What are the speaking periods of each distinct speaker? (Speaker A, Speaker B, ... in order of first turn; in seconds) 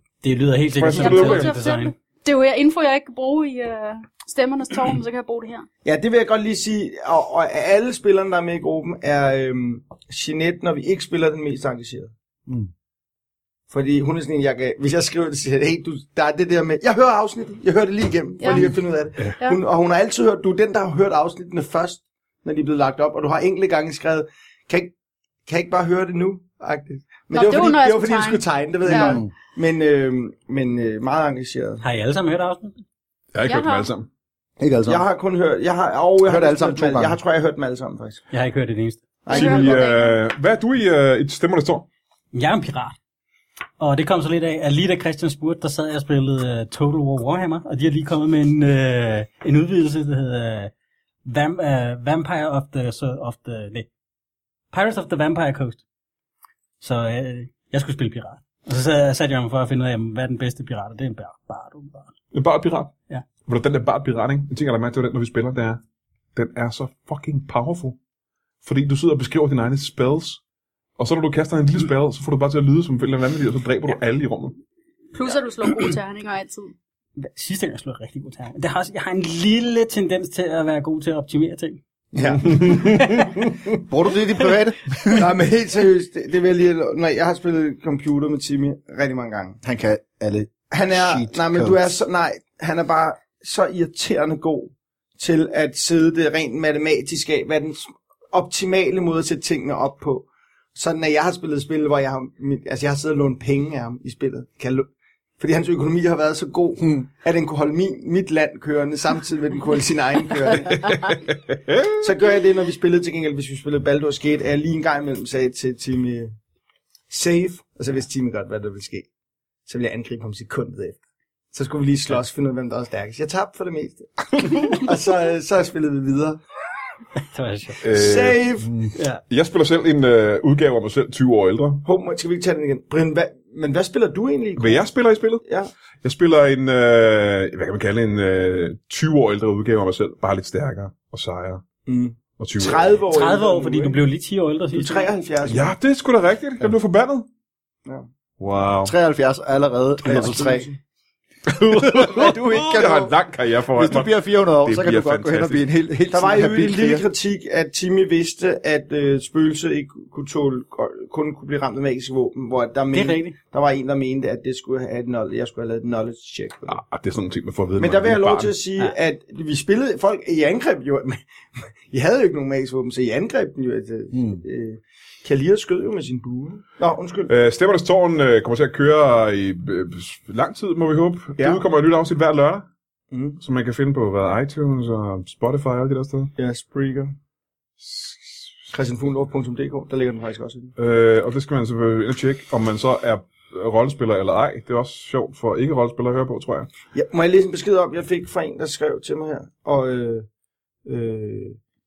Speaker A: 0.2-1.9, 31.8-32.8, 38.3-39.2, 42.3-43.0, 43.8-50.7, 51.2-53.9, 54.7-55.8, 56.8-62.1, 77.2-81.8, 82.6-83.3, 127.3-127.8, 129.0-129.2, 143.1-145.2, 162.9-163.4
Speaker B: 0.8-1.6, 33.3-34.1, 39.3-41.9, 62.3-63.0, 63.5-65.8, 66.3-68.0, 68.6-70.4, 71.0-74.6, 110.8-112.0, 127.8-128.4, 129.3-131.8, 134.6-135.4, 136.0-141.6, 142.4-142.9, 145.4-147.3, 148.4-148.9, 151.5-155.7, 166.7-168.6, 177.3-182.7, 183.4-186.3, 187.8-188.5, 190.8-196.7
Speaker C: 0.9-5.7, 18.4-18.7, 27.3-29.2, 33.5-33.9, 39.3-40.2, 75.1-76.7
Speaker D: 5.8-12.1, 13.7-24.9, 25.5-31.8, 34.9-38.2, 39.2-39.9, 82.2-82.7, 85.1-89.6, 90.7-111.4, 111.9-116.3, 117.1-119.1, 119.7-121.0, 121.5-126.4, 127.9-128.8, 131.8-134.9, 135.4-135.7, 141.9-144.0, 144.7-145.7, 150.0-150.8, 156.1-166.8, 167.8-177.3, 181.4-181.6, 183.1-183.4, 186.4-187.2, 188.7-190.8, 196.9-200.3, 200.8-201.6
Speaker E: 28.9-29.3, 34.6-35.0, 36.2-37.2, 82.4-83.2, 83.8-85.3, 89.6-91.9, 148.8-150.7, 151.7-153.2, 153.7-157.1